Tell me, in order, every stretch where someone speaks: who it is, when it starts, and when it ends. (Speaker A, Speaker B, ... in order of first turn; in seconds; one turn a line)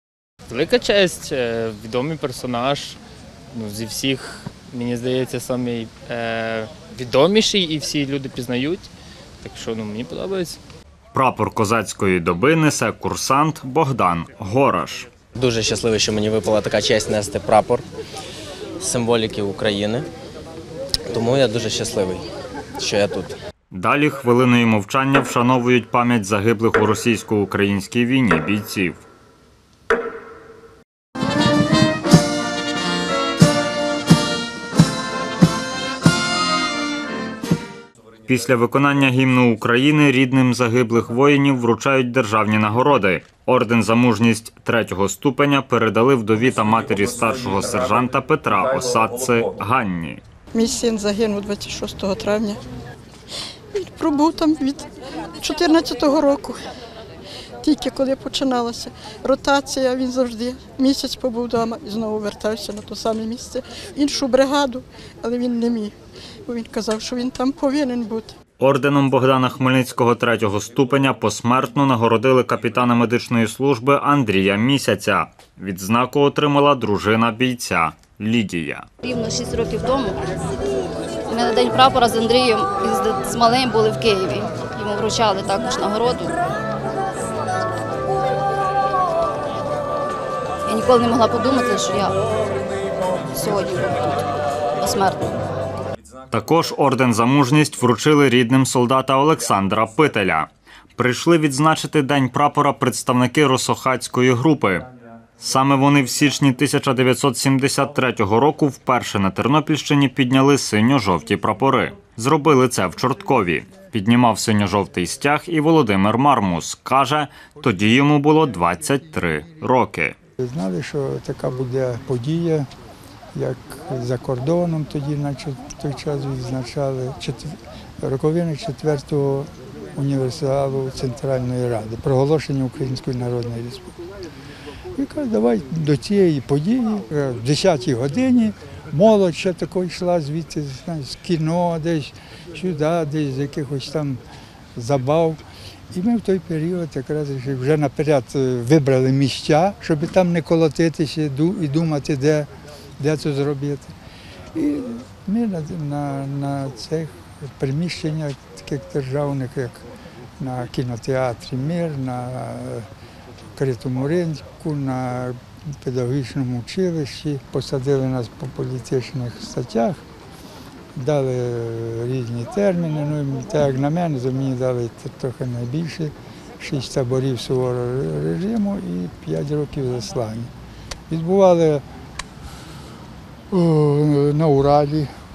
Speaker A: 0.5-3.0
Speaker A: 3.5-8.9
Speaker A: 9.4-10.6
Speaker B: 11.1-15.1
Speaker C: 15.4-17.9
Speaker C: 18.8-20.1
Speaker C: 21.1-22.3
Speaker C: 22.8-23.4
Speaker B: 23.7-29.0
Speaker B: 38.3-50.2
Speaker D: 50.5-52.6
Speaker D: 53.7-54.9
Speaker D: 55.4-56.6
Speaker D: 57.6-66.0
Speaker D: 66.5-68.3
Speaker B: 68.6-78.9
Speaker E: 79.0-80.2
Speaker E: 81.3-86.4
Speaker E: 90.7-92.2
Speaker E: 93.3-94.2
Speaker E: 94.8-95.3
Speaker B: 96.3-104.9
Speaker B: 105.4-120.1
Speaker F: 120.4-122.7
Speaker F: 123.3-133.9
Speaker F: 135.0-144.2
Speaker F: 144.8-153.9
Speaker F: 154.5-159.8
Speaker F: 160.4-162.9
Speaker F: 163.6-170.0
Speaker F: 170.9-180.5
Speaker F: 181.1-181.8
Speaker F: 183.5-185.1